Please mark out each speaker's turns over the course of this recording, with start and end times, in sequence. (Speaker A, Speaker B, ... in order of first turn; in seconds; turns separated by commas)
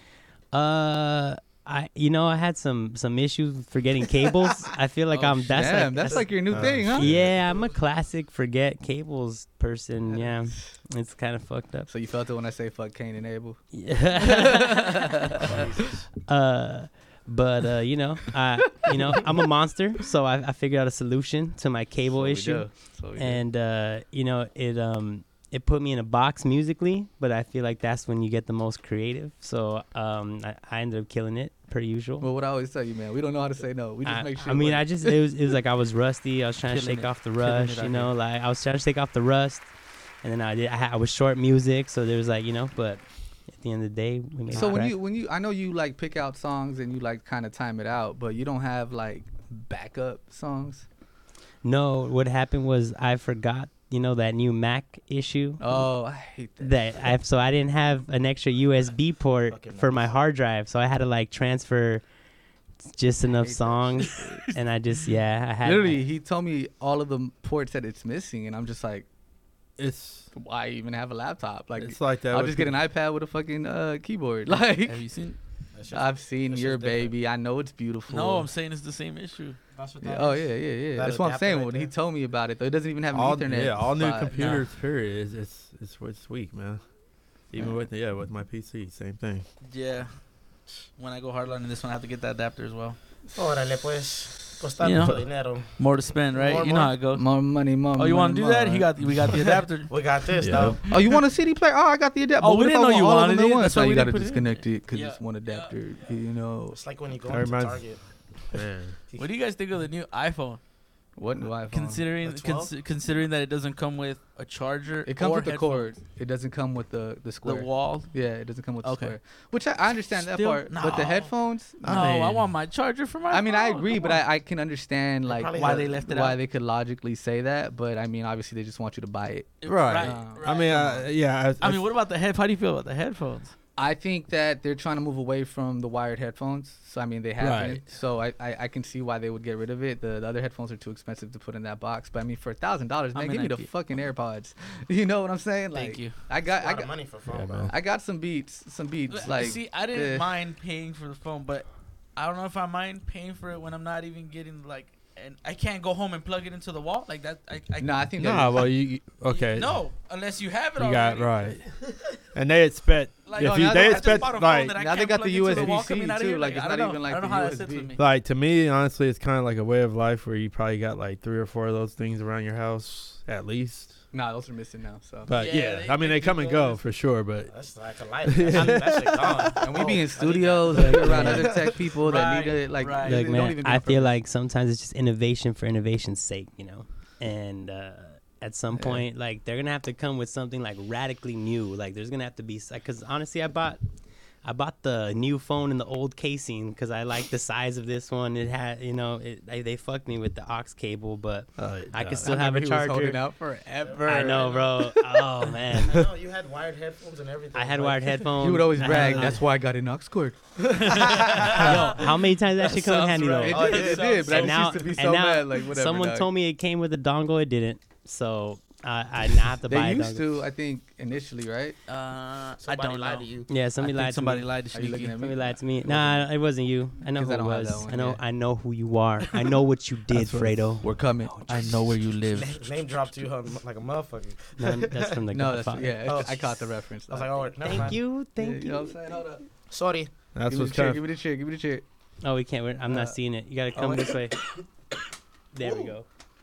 Speaker A: 0.5-11.9, Speaker B: 5.1-5.5, Speaker C: 5.5-7.1, Speaker D: 6.5-7.4, Speaker C: 10.1-10.7, Speaker C: 11.9-15.6, Speaker A: 13.7-15.1, Speaker E: 15.4-16.1, Speaker A: 16.2-32.3, Speaker C: 22.1-23.4, Speaker C: 32.2-35.1, Speaker A: 34.0-45.0, Speaker B: 36.6-38.1, Speaker C: 44.5-50.9, Speaker A: 51.6-55.9, Speaker C: 55.6-56.8, Speaker A: 56.6-62.0, Speaker E: 59.5-60.1, Speaker A: 62.8-66.0, Speaker C: 63.4-64.4, Speaker C: 65.6-69.0, Speaker D: 69.8-70.3, Speaker C: 70.3-75.0, Speaker D: 71.8-72.8, Speaker B: 74.8-75.4, Speaker E: 75.7-77.1, Speaker C: 75.9-78.5, Speaker B: 78.1-79.6, Speaker E: 79.7-81.9, Speaker C: 80.0-84.6, Speaker D: 83.1-86.8, Speaker B: 84.3-84.7, Speaker D: 87.4-89.5, Speaker B: 89.6-90.4, Speaker B: 91.0-93.0, Speaker E: 93.3-97.0, Speaker B: 94.8-97.4, Speaker C: 97.1-98.9, Speaker B: 97.9-100.2, Speaker E: 99.9-100.8, Speaker D: 100.4-100.8, Speaker C: 100.9-106.8, Speaker B: 102.4-105.7, Speaker E: 106.7-109.3, Speaker D: 107.3-109.0, Speaker B: 109.2-110.6, Speaker C: 111.2-112.1, Speaker B: 111.7-115.9, Speaker E: 112.2-112.7, Speaker C: 115.0-122.1, Speaker B: 117.4-118.1, Speaker B: 118.8-119.2, Speaker B: 120.2-124.2, Speaker D: 121.8-122.5, Speaker C: 123.3-130.7, Speaker E: 125.2-126.0, Speaker B: 125.5-126.4, Speaker B: 129.6-131.1, Speaker D: 129.7-131.8, Speaker B: 131.6-133.5, Speaker C: 133.8-147.1, Speaker D: 137.4-137.8, Speaker B: 143.1-143.7, Speaker B: 145.7-146.2, Speaker E: 146.5-147.7, Speaker D: 147.3-147.7, Speaker C: 147.7-150.3, Speaker B: 149.1-158.0, Speaker C: 157.8-158.7, Speaker D: 158.2-159.9, Speaker B: 159.2-161.6, Speaker D: 160.8-164.8, Speaker B: 163.2-168.0, Speaker C: 163.4-168.0, Speaker D: 168.0-174.0, Speaker C: 174.1-175.3, Speaker D: 175.2-177.7, Speaker B: 175.3-176.8, Speaker E: 177.5-181.9, Speaker D: 178.2-179.4, Speaker C: 179.6-184.2, Speaker A: 180.7-181.5, Speaker B: 182.0-183.3, Speaker A: 183.0-193.8, Speaker C: 188.7-189.0, Speaker A: 194.4-203.2, Speaker D: 201.6-202.3, Speaker C: 202.1-205.0, Speaker E: 203.8-204.5, Speaker A: 204.0-206.0, Speaker E: 205.8-208.3, Speaker A: 207.5-209.4, Speaker C: 208.4-216.3, Speaker E: 211.1-211.5, Speaker B: 211.3-211.9, Speaker A: 211.4-220.2, Speaker E: 213.4-214.6, Speaker B: 213.8-214.5, Speaker C: 219.7-221.8, Speaker B: 221.9-225.1, Speaker E: 222.6-223.5, Speaker A: 223.5-224.5, Speaker C: 224.7-225.6, Speaker A: 225.2-231.7, Speaker C: 227.1-228.2, Speaker D: 230.1-230.6, Speaker C: 230.8-231.7, Speaker B: 231.5-232.6, Speaker E: 232.3-235.2, Speaker A: 234.6-235.9, Speaker C: 235.3-237.8, Speaker E: 236.0-238.0, Speaker A: 237.6-238.9, Speaker C: 238.4-239.5, Speaker E: 239.7-240.2, Speaker D: 240.3-241.0, Speaker C: 240.4-241.8, Speaker A: 242.2-244.4, Speaker C: 242.9-243.2, Speaker E: 243.8-244.1, Speaker A: 245.5-246.1, Speaker E: 245.6-245.9